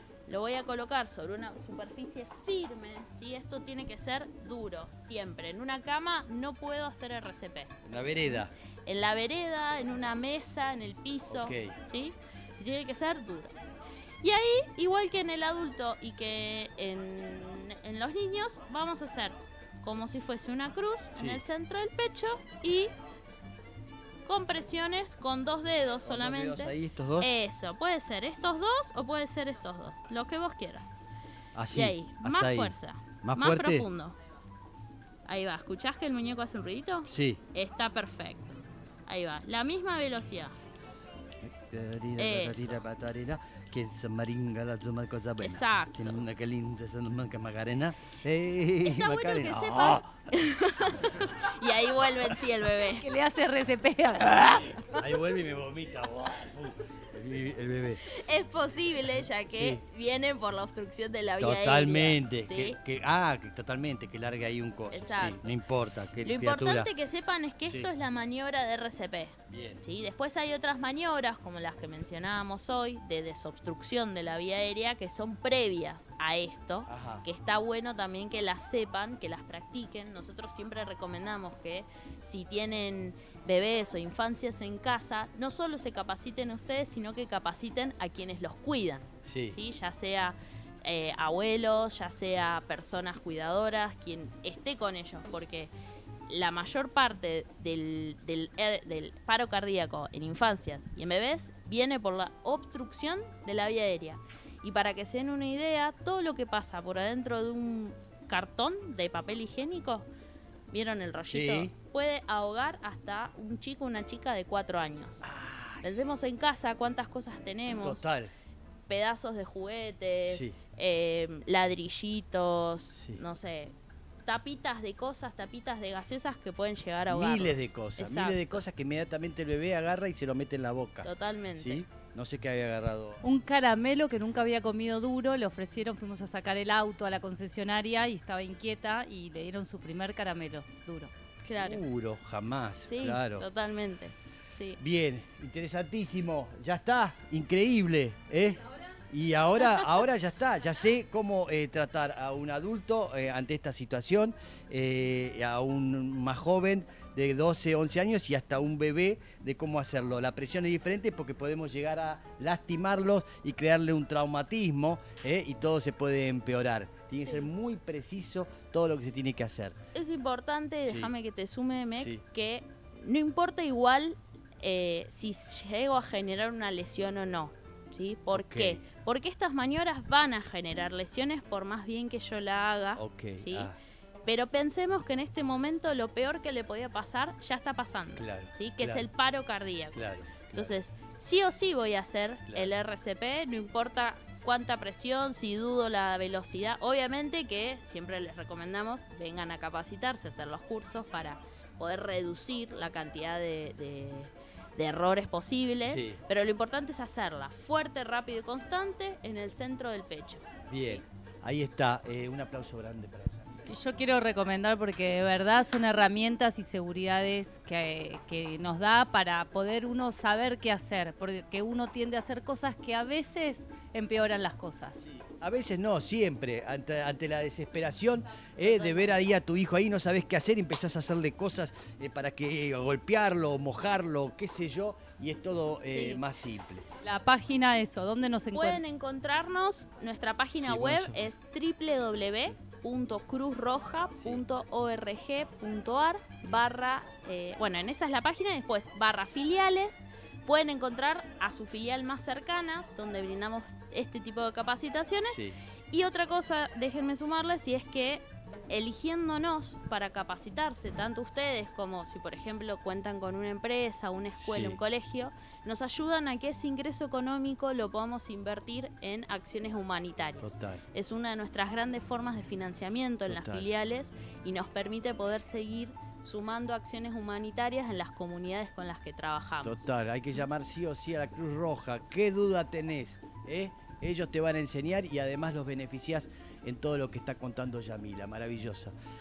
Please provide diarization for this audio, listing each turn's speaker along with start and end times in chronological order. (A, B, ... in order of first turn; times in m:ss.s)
0:00.3-0:07.7 A
0:07.8-0:08.5 B
0:08.9-0:13.5 A
0:11.3-0:11.8 B
0:14.2-0:22.9 A
0:21.2-0:21.4 B
0:24.3-0:30.9 A
0:26.1-0:27.3 B
0:31.6-0:33.9 B
0:31.7-0:34.2 A
0:35.3-0:40.6 A
0:37.1-0:37.4 B
0:41.4-0:50.1 B
0:42.2-0:42.8 A
0:45.4-0:46.2 A
0:48.8-0:53.1 A
0:53.0-0:54.8 C
0:54.3-0:58.0 B
0:58.0-1:02.8 A
0:59.5-0:59.8 B
1:01.4-1:06.9 B
1:04.9-1:05.6 A
1:06.2-1:35.7 A
1:09.5-1:09.8 B
1:16.9-1:17.3 B
1:29.2-1:29.6 B
1:36.3-1:50.1 A
1:50.7-1:55.2 A
1:51.3-1:51.7 B
1:55.2-1:55.9 B
1:55.8-1:58.1 A
1:57.7-1:58.3 B
1:58.9-2:03.7 A
2:00.3-2:00.6 B
2:03.0-2:03.2 B
2:04.3-2:08.6 A
2:07.1-2:13.2 B
2:11.0-2:11.8 A
2:13.2-2:21.1 C
2:21.4-2:21.8 A
2:21.6-2:23.5 B
2:22.8-2:24.8 A
2:24.8-2:49.8 B
2:47.2-2:47.5 A
2:50.0-3:03.7 A
2:50.9-2:51.1 B
2:58.3-2:58.8 B
3:03.0-3:03.8 B
3:04.2-3:31.0 A
3:08.2-3:09.1 B
3:09.9-3:10.8 B
3:12.5-3:12.7 B
3:25.9-3:26.2 B
3:30.7-3:33.7 B
3:33.7-3:45.0 C
3:45.0-3:56.9 B
3:48.6-3:49.2 A
3:55.9-3:56.2 A
3:57.0-3:58.8 C
3:58.5-4:39.9 A
4:00.6-4:01.3 B
4:04.2-4:04.4 B
4:15.3-4:15.6 B
4:24.4-4:24.8 B
4:30.4-4:30.8 B
4:33.3-4:33.7 B
4:39.6-4:48.9 B